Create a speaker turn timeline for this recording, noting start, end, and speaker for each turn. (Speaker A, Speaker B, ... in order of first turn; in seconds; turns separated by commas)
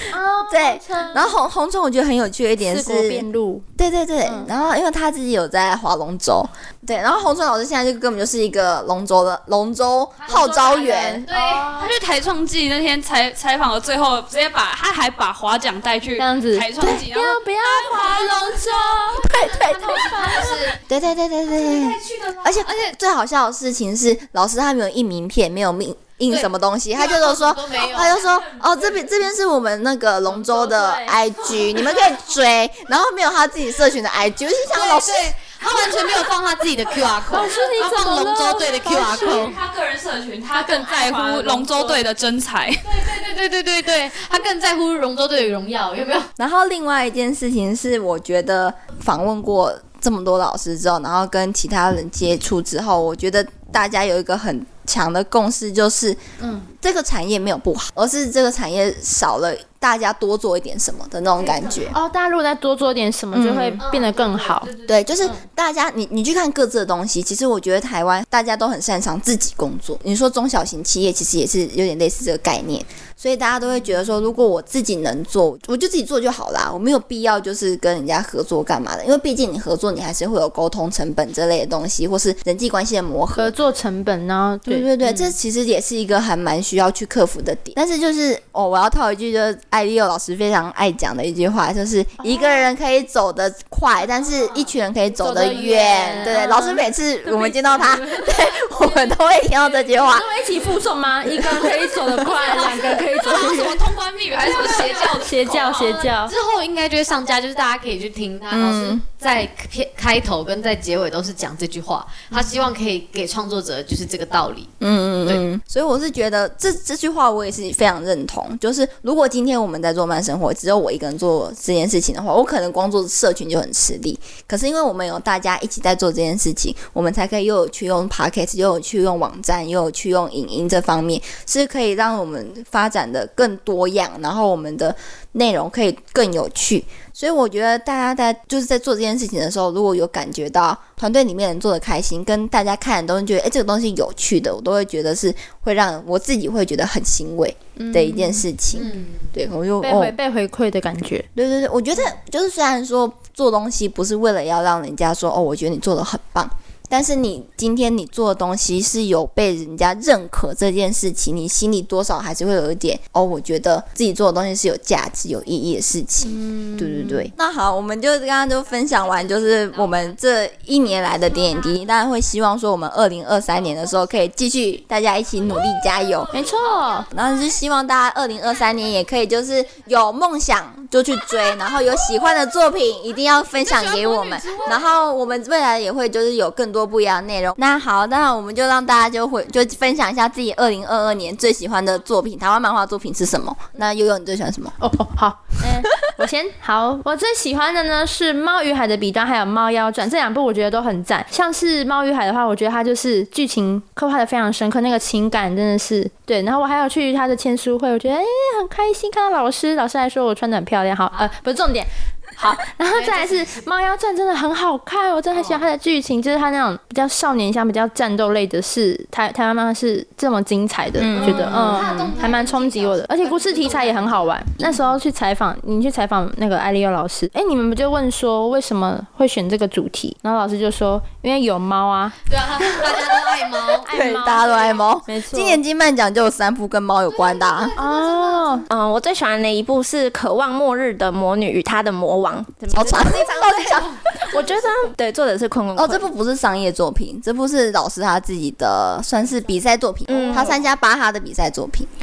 Speaker A: 0.1-1.3, Speaker B: 0.5-3.2, Speaker A: 2.6-3.6, Speaker B: 3.8-11.2, Speaker A: 4.2-4.5, Speaker C: 10.2-11.8, Speaker A: 11.3-11.9, Speaker D: 11.7-18.9, Speaker A: 16.2-20.6, Speaker C: 19.2-20.8, Speaker B: 19.3-20.0, Speaker B: 20.8-35.4, Speaker C: 21.6-22.8, Speaker C: 26.3-28.7, Speaker A: 30.6-31.1, Speaker C: 34.7-39.6, Speaker A: 37.3-39.5, Speaker D: 39.1-42.9, Speaker A: 40.5-42.0, Speaker C: 42.8-46.3, Speaker B: 46.4-56.2, Speaker A: 56.4-56.7, Speaker B: 56.7-61.9, Speaker C: 61.4-61.9, Speaker A: 61.9-64.7, Speaker B: 63.3-63.8, Speaker C: 63.8-65.4, Speaker B: 64.9-83.5, Speaker A: 83.3-84.9, Speaker B: 84.7-100.3, Speaker C: 85.0-85.3, Speaker A: 92.2-92.6, Speaker A: 95.2-98.3, Speaker C: 96.0-96.3, Speaker A: 100.0-103.8, Speaker D: 102.4-106.1, Speaker A: 104.4-106.3, Speaker C: 106.1-114.7, Speaker B: 108.5-109.0, Speaker B: 114.8-150.1, Speaker A: 147.8-148.4, Speaker C: 148.7-149.3, Speaker A: 149.8-151.3, Speaker B: 151.3-176.3, Speaker A: 166.2-167.3, Speaker A: 176.3-177.1, Speaker C: 176.6-177.0, Speaker B: 177.1-194.7, Speaker C: 183.7-184.6, Speaker A: 194.8-232.2, Speaker C: 212.9-213.7, Speaker C: 215.3-215.6, Speaker B: 221.0-222.2, Speaker C: 221.1-224.5, Speaker C: 232.2-233.9, Speaker A: 233.8-235.6, Speaker B: 233.8-237.8, Speaker C: 237.1-238.6, Speaker A: 237.8-238.7, Speaker E: 238.7-246.1, Speaker B: 242.7-244.5, Speaker B: 245.8-251.9, Speaker E: 250.1-250.6